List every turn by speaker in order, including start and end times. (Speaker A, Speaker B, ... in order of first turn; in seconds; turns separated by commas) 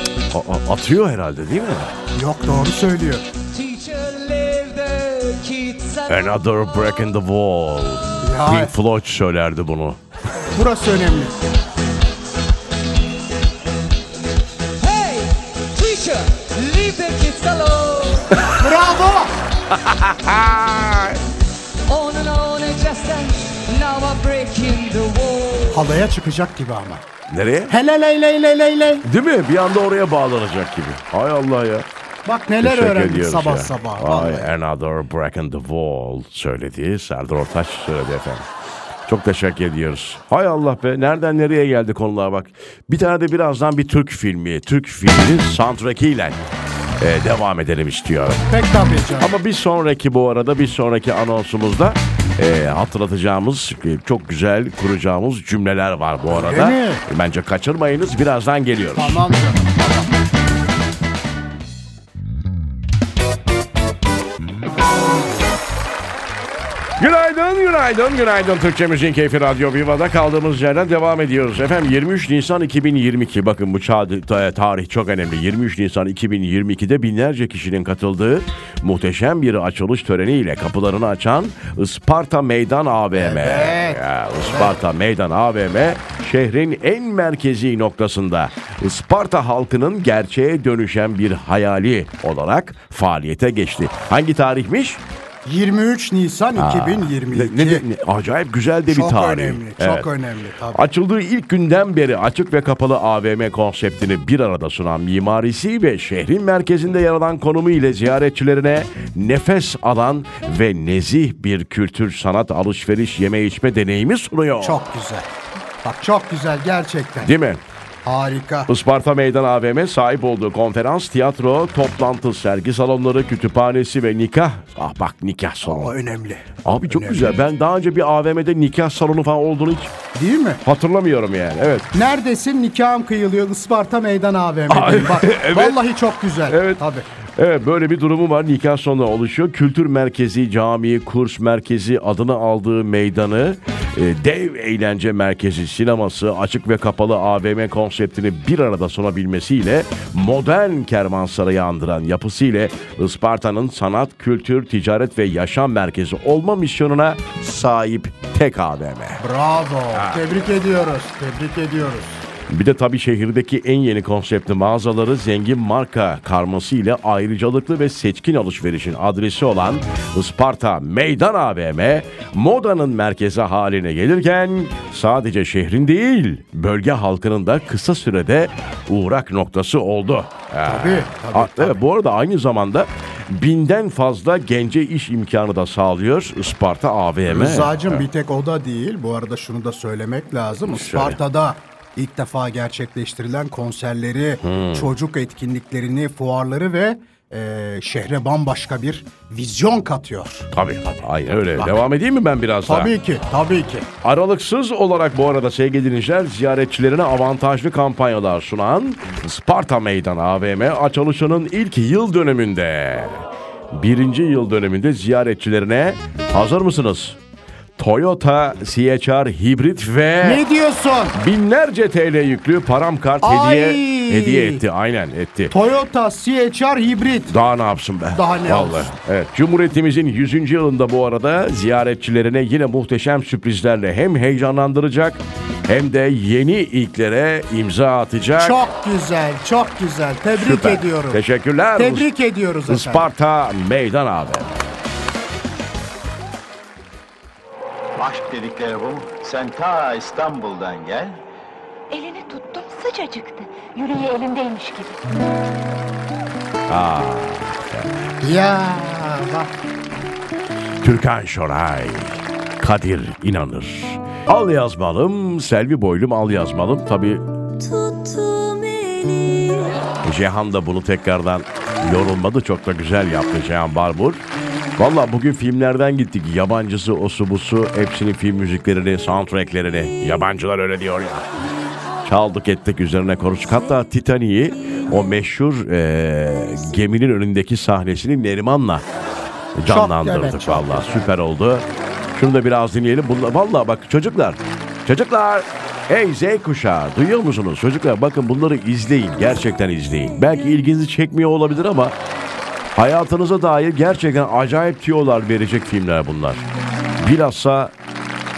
Speaker A: 0.3-1.9, Speaker B: 2.1-3.3, Speaker C: 3.5-6.3, Speaker A: 6.1-10.0, Speaker B: 8.2-8.7, Speaker B: 10.5-11.4, Speaker C: 14.8-18.3, Speaker B: 18.6-19.3, Speaker A: 19.7-21.2, Speaker C: 21.9-25.9, Speaker B: 25.7-27.0, Speaker A: 27.3-27.7, Speaker B: 27.7-29.1, Speaker A: 29.0-31.9, Speaker B: 32.2-34.5, Speaker A: 32.6-38.5, Speaker A: 39.0-46.4, Speaker A: 47.0-48.5, Speaker B: 48.5-49.3, Speaker A: 49.2-59.2, Speaker B: 56.3-57.0, Speaker B: 58.9-60.1, Speaker A: 67.0-95.0, Speaker B: 83.1-84.8, Speaker B: 95.4-97.8, Speaker A: 96.5-100.1, Speaker B: 98.9-100.8, Speaker A: 100.7-114.8, Speaker B: 114.6-115.3, Speaker B: 115.8-117.3, Speaker A: 117.2-117.6, Speaker B: 118.0-118.7, Speaker A: 118.7-125.9, Speaker B: 125.6-127.4, Speaker A: 126.6-129.9, Speaker B: 130.1-130.6, Speaker A: 130.6-131.9, Speaker B: 131.9-137.1, Speaker A: 134.7-135.8, Speaker A: 136.5-136.8, Speaker A: 137.3-159.2, Speaker B: 159.2-162.2, Speaker A: 159.9-160.2, Speaker A: 162.5-188.0, Speaker B: 180.6-181.8, Speaker B: 187.3-200.5, Speaker A: 190.7-191.2, Speaker A: 194.4-194.9, Speaker A: 200.5-202.9, Speaker B: 202.7-203.9, Speaker A: 204.0-217.2, Speaker A: 217.8-220.4, Speaker B: 220.2-221.2, Speaker A: 221.1-225.5, Speaker B: 223.2-224.6, Speaker B: 225.5-227.3, Speaker A: 227.3-238.6, Speaker B: 228.1-229.0, Speaker B: 238.4-241.2, Speaker A: 240.3-242.1, Speaker B: 241.8-243.1, Speaker A: 242.7-244.5, Speaker D: 248.0-251.2, Speaker E: 251.9-255.0, Speaker A: 256.7-258.1, Speaker B: 258.2-259.5, Speaker A: 260.8-267.3, Speaker F: 267.5-269.9, Speaker A: 270.0-274.2, Speaker A: 274.8-281.3, Speaker F: 279.8-280.2, Speaker F: 281.5-282.0, Speaker A: 282.0-288.8, Speaker F: 283.4-283.9, Speaker F: 284.5-285.2, Speaker F: 286.3-286.6, Speaker A: 289.5-302.0, Speaker B: 289.6-291.2, Speaker F: 291.7-292.2, Speaker A: 302.7-307.7